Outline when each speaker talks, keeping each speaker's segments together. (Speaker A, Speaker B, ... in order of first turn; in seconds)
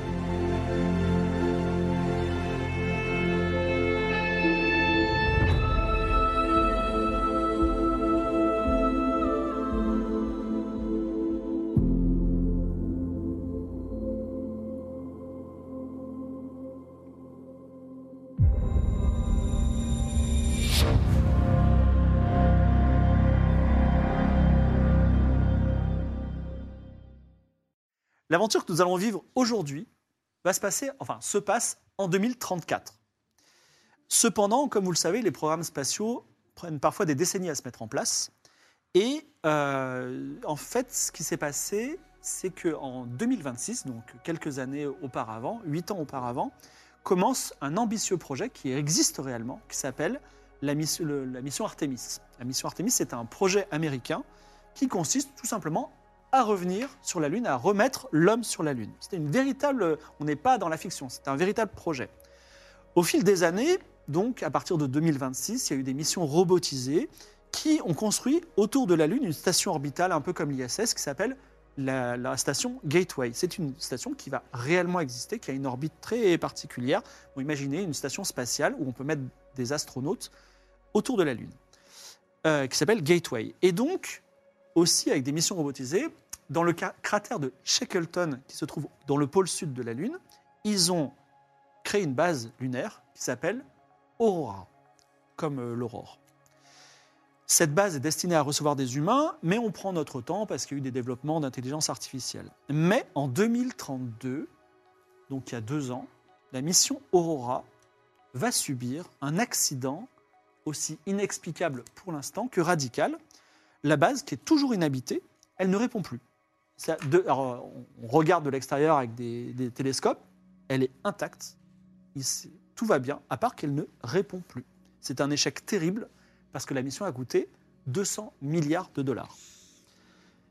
Speaker A: 28.3-29.9, 30.4-33.0, 34.1-38.3, 38.9-46.5, 47.0-54.2, 54.8-62.1, 63.0-80.3, 80.9-81.6, 82.4-84.2, 84.8-91.1, 91.8-93.7, 94.2-94.7, 95.4-96.2, 97.5-104.5, 105.3-107.7, 108.3-110.1, 110.7-113.2, 113.8-116.2, 116.8-121.6, 122.2-129.3